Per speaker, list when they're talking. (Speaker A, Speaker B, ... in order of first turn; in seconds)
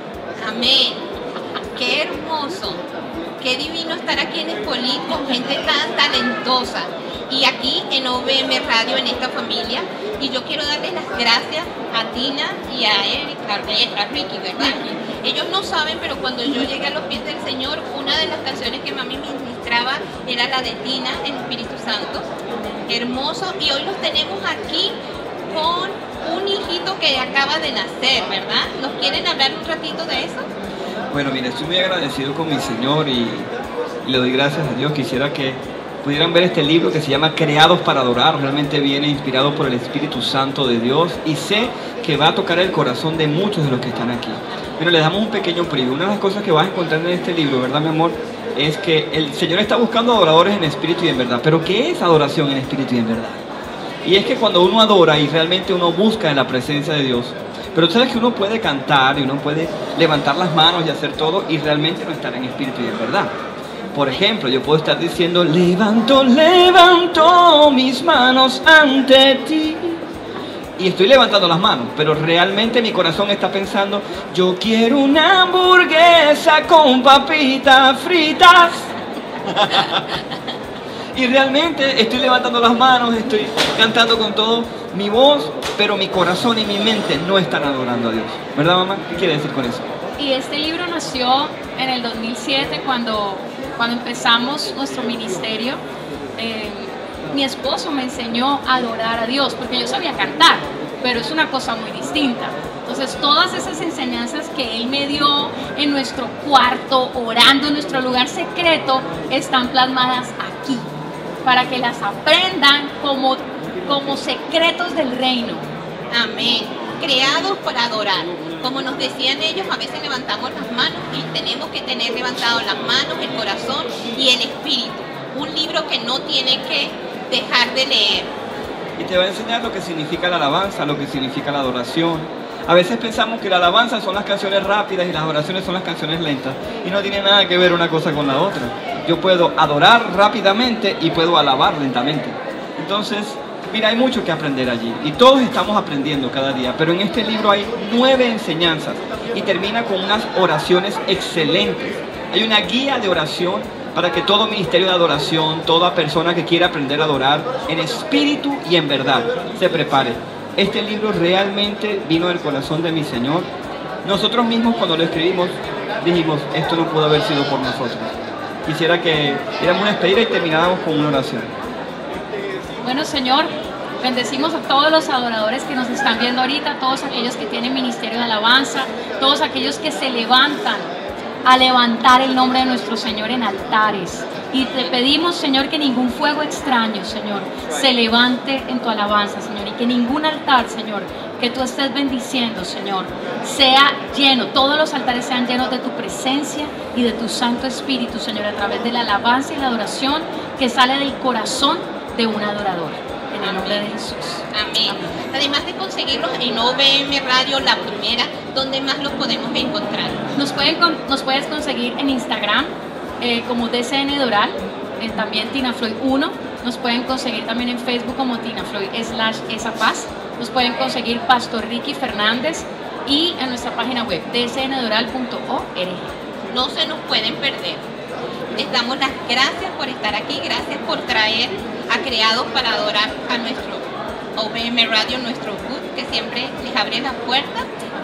Speaker A: 0.4-1.0, 1.7-2.8, 3.4-22.3, 22.9-25.0, 25.5-30.5, 116.1-128.3, 203.4-203.9, 204.5-210.2, 226.5-227.8, 228.5-237.7
Speaker B: 31.1-33.5, 34.0-53.4, 54.0-63.3, 63.9-70.0, 70.8-78.9, 79.4-80.2, 81.1-89.9, 129.0-163.5, 164.0-168.1, 168.7-171.5
Speaker C: 90.2-95.8, 96.3-110.9, 111.4-115.7, 172.8-180.9, 181.4-205.0, 210.3-226.1